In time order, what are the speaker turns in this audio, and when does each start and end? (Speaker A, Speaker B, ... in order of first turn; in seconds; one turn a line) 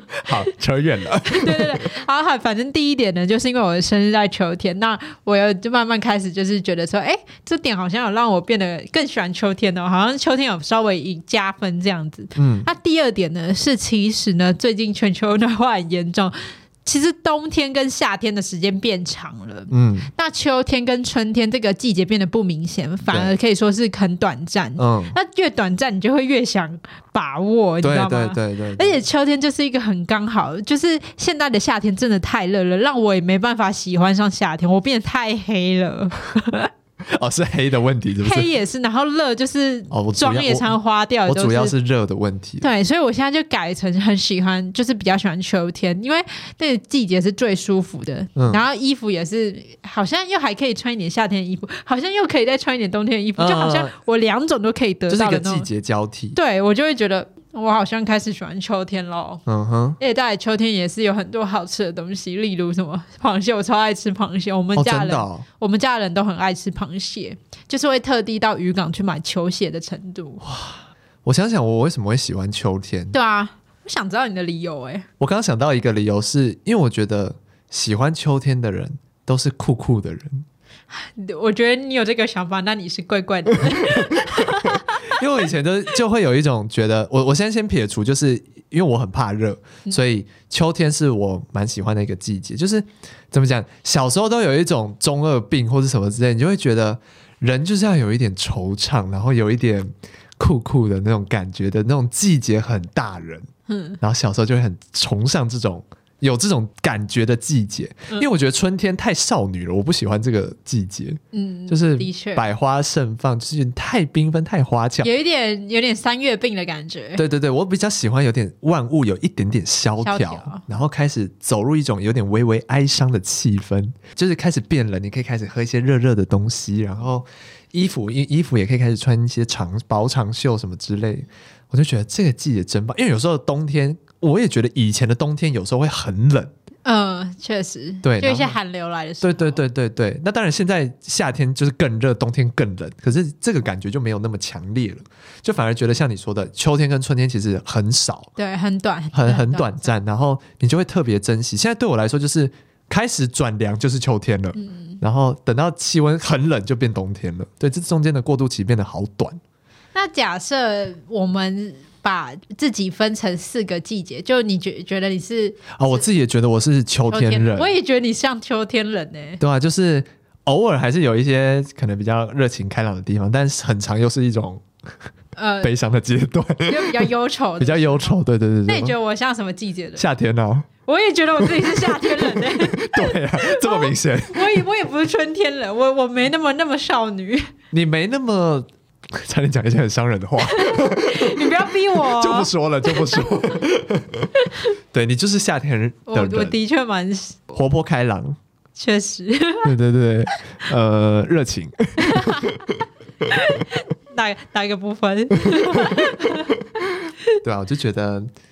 Speaker A: 0.1-1.8
Speaker B: 1.2-36.7
Speaker A: 12.3-12.7
Speaker A: 19.7-20.1
Speaker A: 24.8-25.1
Speaker A: 27.8-29.0
Speaker A: 37.0-38.5
Speaker B: 38.2-41.7
Speaker A: 39.9-40.7
Speaker A: 41.2-42.7
Speaker B: 42.6-55.7
Speaker A: 48.4-48.6
Speaker A: 53.4-53.9
Speaker A: 55.1-56.4
Speaker B: 56.3-59.4
Speaker A: 59.5-60.0
Speaker B: 60.0-70.4
Speaker A: 64.7-65.4
Speaker A: 70.4-73.2
Speaker B: 73.1-75.0
Speaker A: 75.2-80.5
Speaker B: 80.9-85.1
Speaker A: 83.9-103.5
Speaker B: 103.7-104.0
Speaker A: 104.0-115.1
Speaker B: 111.3-112.4
Speaker B: 115.0-117.2
Speaker A: 117.2-136.5
Speaker B: 120.0-120.6
Speaker B: 136.8-139.6
Speaker A: 138.0-138.6
Speaker A: 139.2-148.3
Speaker B: 148.3-149.9
Speaker A: 149.1-159.4
Speaker B: 154.6-155.0
Speaker B: 159.9-166.1
Speaker A: 165.8-167.7
Speaker B: 167.1-169.4
Speaker A: 169.4-174.6
Speaker B: 175.3-175.7
Speaker A: 175.6-178.9
Speaker B: 176.7-180.1
Speaker A: 179.9-180.7
Speaker B: 180.8-187.5
Speaker A: 181.5-184.6
Speaker A: 187.7-194.3
Speaker B: 190.4-193.6
Speaker A: 194.9-196.6
Speaker B: 196.1-197.4
Speaker A: 197.5-198.4
Speaker B: 198.8-199.7
Speaker A: 199.6-202.8
Speaker B: 202.0-202.6
Speaker B: 203.2-206.6
Speaker A: 207.4-208.3